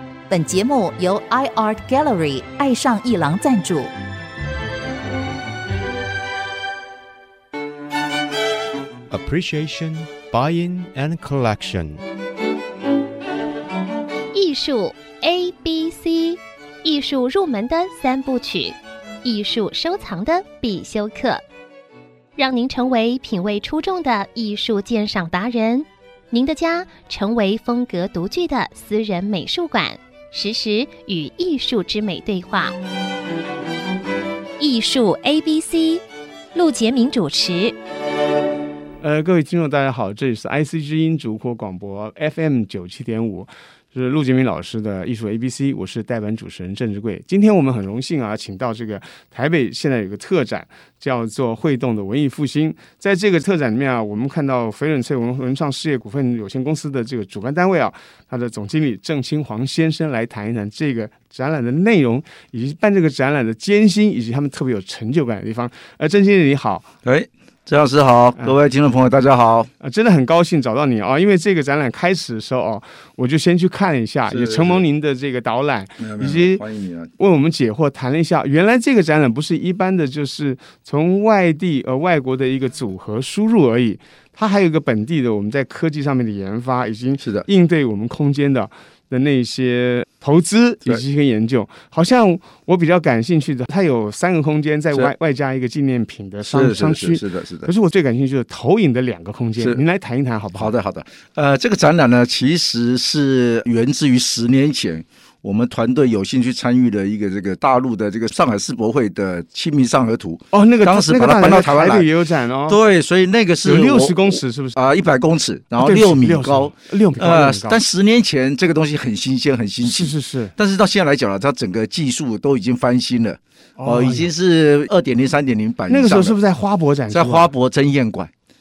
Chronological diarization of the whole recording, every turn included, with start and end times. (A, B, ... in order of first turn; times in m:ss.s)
0:00.3-0:03.9 A
0:09.1-0:12.0 B
0:14.3-0:21.4 C
0:22.4-0:32.8 C
0:34.6-0:36.0 C
0:36.5-0:37.8 C
0:39.0-1:06.9 D
1:07.0-1:09.7 E
1:09.8-1:16.6 D
1:14.3-1:14.8 E
1:16.0-1:17.1 E
1:17.2-1:40.7 D
1:27.2-1:27.5 E
1:36.5-1:37.7 E
1:40.6-1:52.1 E
1:50.5-1:52.8 D
1:52.7-2:06.4 E
1:53.6-1:54.8 D
1:55.8-1:57.8 D
1:59.8-2:00.5 D
2:03.8-2:04.3 D
2:05.9-2:07.5 D
2:07.1-2:08.3 E